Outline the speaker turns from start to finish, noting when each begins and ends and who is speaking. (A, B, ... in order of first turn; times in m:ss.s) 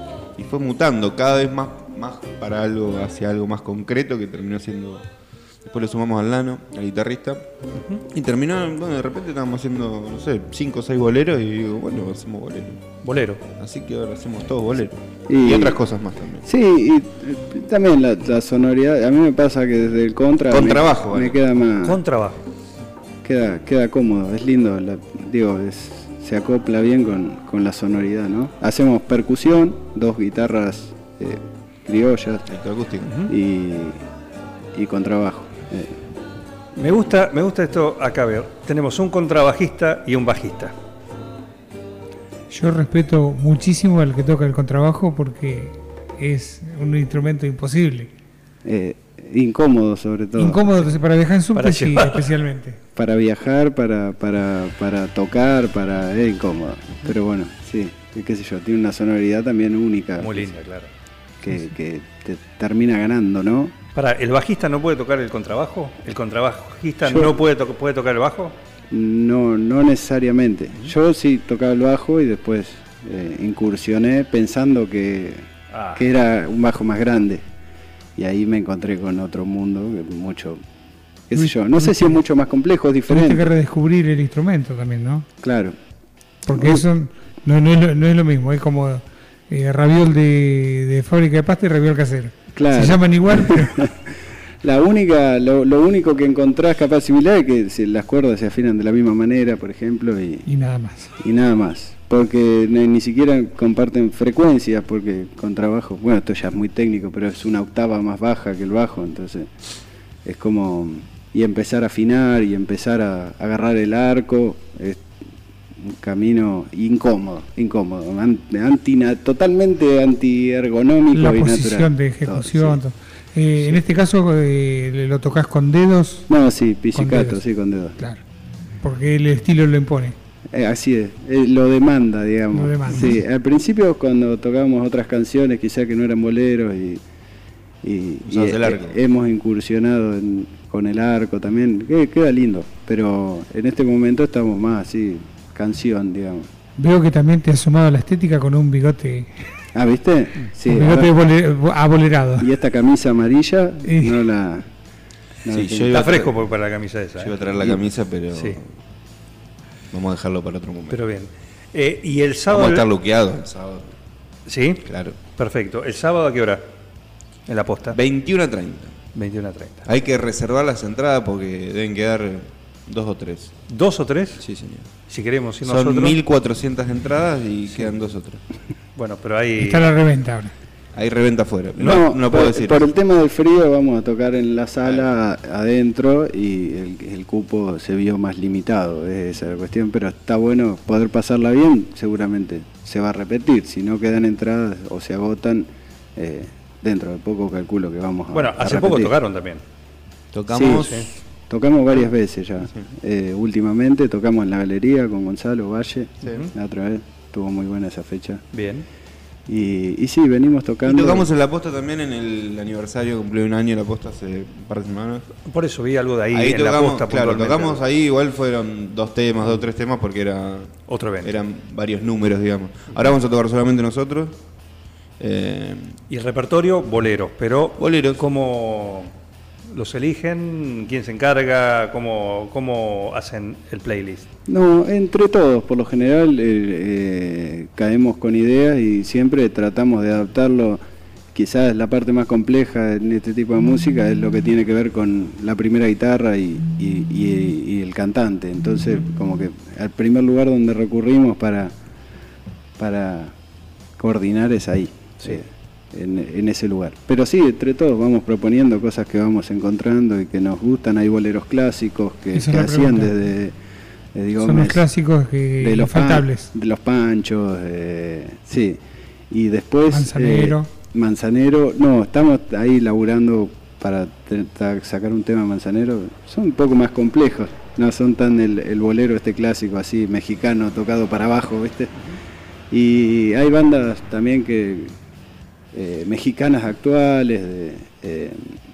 0:00.4-0:05.0 A
0:05.6-0:07.5 A
0:07.8-0:08.0 B
0:08.1-0:12.8 A
0:13.0-0:13.4 B
0:13.6-0:16.5 A
0:15.3-0:15.8 C
0:16.4-0:22.0 C
0:20.5-0:21.4 A
0:21.8-0:22.4 B
0:23.2-0:32.5 C
0:32.5-0:33.1 A
0:33.0-0:33.3 B
0:33.3-0:34.0 C
0:34.8-0:35.9 C
0:36.8-0:40.7 B
0:42.5-0:48.1 D
0:48.6-0:50.8 C
0:50.4-0:52.8 D
0:51.5-0:52.3 B
0:53.0-1:00.5 C
1:00.2-1:00.9 B
1:01.4-1:03.7 C
1:03.9-1:08.6 B
1:07.0-1:07.3 C
1:08.9-1:17.4 C
1:15.7-1:16.0 B
1:18.2-1:20.6 C
1:21.3-1:23.5 C
1:21.4-1:22.2 D
1:23.1-1:25.2 D
1:25.4-1:25.8 C
1:26.5-1:33.8 D
1:26.5-1:26.8 C
1:32.5-1:34.1 C
1:34.6-1:40.5 C
1:40.5-1:41.1 D
1:41.2-1:49.5 C
1:50.2-1:55.0 C
1:55.8-2:02.8 C
2:01.1-2:06.3 D
2:06.3-2:08.0 C
2:06.9-2:07.4 D
2:08.8-2:10.2 D
2:10.5-2:17.0 C
2:12.5-2:13.2 D
2:17.8-2:26.5 C
2:18.2-2:19.0 A
2:26.8-2:29.3 D
2:29.8-2:31.1 C
2:30.6-2:32.5 D
2:32.4-2:34.7 C
2:33.8-2:34.2 D
2:35.4-2:35.9 C
2:35.5-2:36.4 A
2:35.9-2:37.3 B
2:37.2-2:38.6 A
2:38.3-2:38.6 B
2:39.9-2:41.0 A
2:40.9-2:42.9 B
2:42.5-2:43.9 A
2:44.5-2:46.6 B
2:44.9-2:45.2 A
2:47.5-2:48.0 B
2:47.9-2:48.9 A
2:49.1-2:49.8 B
2:49.8-2:53.6 A
2:53.7-2:54.4 B
2:54.4-2:54.8 A
2:55.1-2:56.2 B
2:55.6-2:58.4 A
2:58.9-2:59.9 B
2:59.6-3:00.5 D
3:00.9-3:02.9 A
3:01.8-3:19.1 C
3:18.3-3:19.6 B
3:20.3-3:21.1 A
3:20.5-3:28.4 C
3:20.7-3:21.1 B
3:26.2-3:26.5 B
3:28.5-3:28.9 B
3:29.5-3:31.3 C
3:30.8-3:35.2 A
3:35.4-3:37.8 B
3:36.3-3:44.4 A
3:40.9-3:41.3 B
3:45.2-3:46.0 A
3:46.1-3:49.1 B
3:47.8-3:48.2 A
3:49.7-3:54.2 B
3:54.5-4:00.8 C
4:01.3-4:11.7 C
4:12.8-4:13.3 C
4:14.0-4:23.5 C
4:22.3-4:23.1 D
4:24.2-4:24.9 C
4:24.4-4:26.5 D
4:25.6-4:28.8 C
4:29.3-4:42.0 C
4:29.9-4:30.7 D
4:42.7-4:44.9 C
4:45.7-4:48.6 C